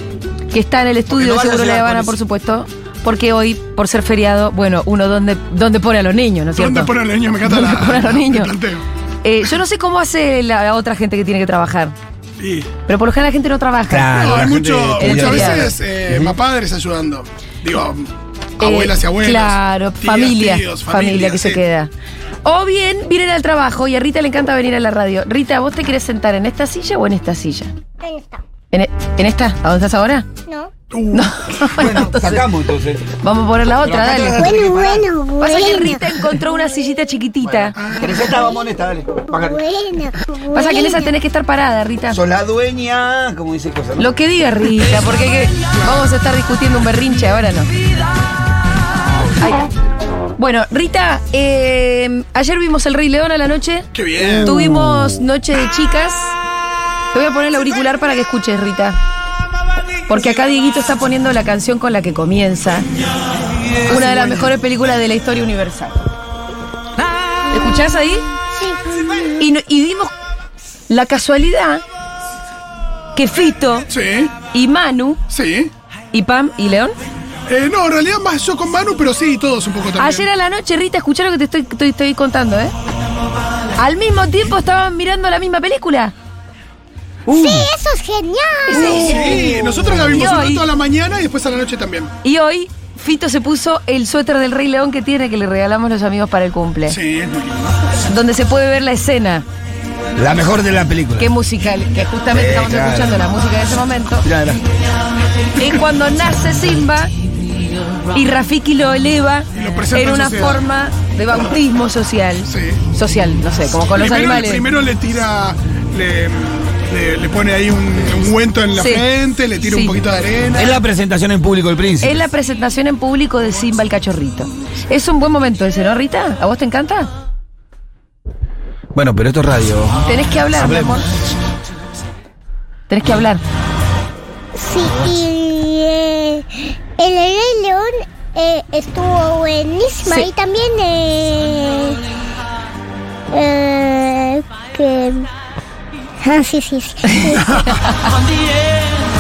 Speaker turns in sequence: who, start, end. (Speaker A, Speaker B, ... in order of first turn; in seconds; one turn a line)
Speaker A: 0.5-6.9
Speaker B: 1.1-2.2
Speaker C: 6.5-8.8
Speaker A: 7.4-8.5
Speaker A: 9.2-11.9
Speaker C: 12.4-12.7
Speaker A: 12.9-14.2
Speaker B: 13.9-16.4
Speaker C: 14.1-18.1
Speaker A: 15.0-15.7
Speaker C: 18.6-21.6
Speaker A: 18.6-21.9
Speaker A: 22.4-27.7
Speaker D: 28.0-28.4
Speaker A: 28.7-30.3
Speaker D: 30.5-30.7
Speaker C: 30.9-31.7
Speaker A: 31.1-32.4
Speaker B: 31.7-33.0
Speaker A: 33.2-34.8
Speaker B: 33.8-35.0
Speaker D: 34.2-36.4
Speaker A: 35.4-37.8
Speaker B: 37.4-39.6
Speaker C: 37.8-38.2
Speaker D: 38.3-38.6
Speaker D: 39.3-41.1
Speaker A: 40.5-42.2
Speaker B: 42.1-44.1
Speaker A: 44.0-47.7
Speaker A: 49.4-49.6
Speaker A: 50.4-56.4
Speaker C: 53.9-54.5
Speaker A: 57.1-59.0
Speaker A: 60.1-62.9
Speaker A: 63.8-66.0
Speaker C: 64.0-64.2
Speaker A: 67.5-68.2
Speaker D: 68.5-69.2
Speaker A: 69.4-70.1
Speaker A: 70.9-71.8
Speaker A: 73.1-73.9
Speaker C: 73.9-74.3
Speaker A: 74.5-75.2
Speaker C: 75.3-75.7
Speaker A: 76.1-76.9
Speaker C: 77.5-80.2
Speaker A: 80.0-82.7
Speaker A: 83.8-86.1
Speaker A: 87.3-87.6
Speaker D: 87.3-89.5
Speaker A: 88.7-90.7
Speaker C: 88.7-92.1
Speaker A: 92.2-97.0
Speaker C: 96.9-97.8
Speaker A: 98.0-99.5
Speaker B: 100.2-101.3
Speaker A: 101.2-104.2
Speaker B: 102.3-103.3
Speaker B: 104.2-104.6
Speaker A: 105.6-107.1
Speaker A: 108.1-114.7
Speaker C: 109.5-110.6
Speaker C: 112.5-112.8
Speaker C: 113.9-120.8
Speaker A: 118.7-119.1
Speaker A: 119.6-120.0
Speaker B: 120.5-122.3
Speaker A: 122.0-127.1
Speaker B: 128.9-131.0
Speaker A: 130.0-131.1
Speaker A: 132.9-133.4
Speaker D: 134.5-142.0
Speaker D: 143.3-145.3
Speaker D: 146.2-147.5
Speaker A: 147.0-148.1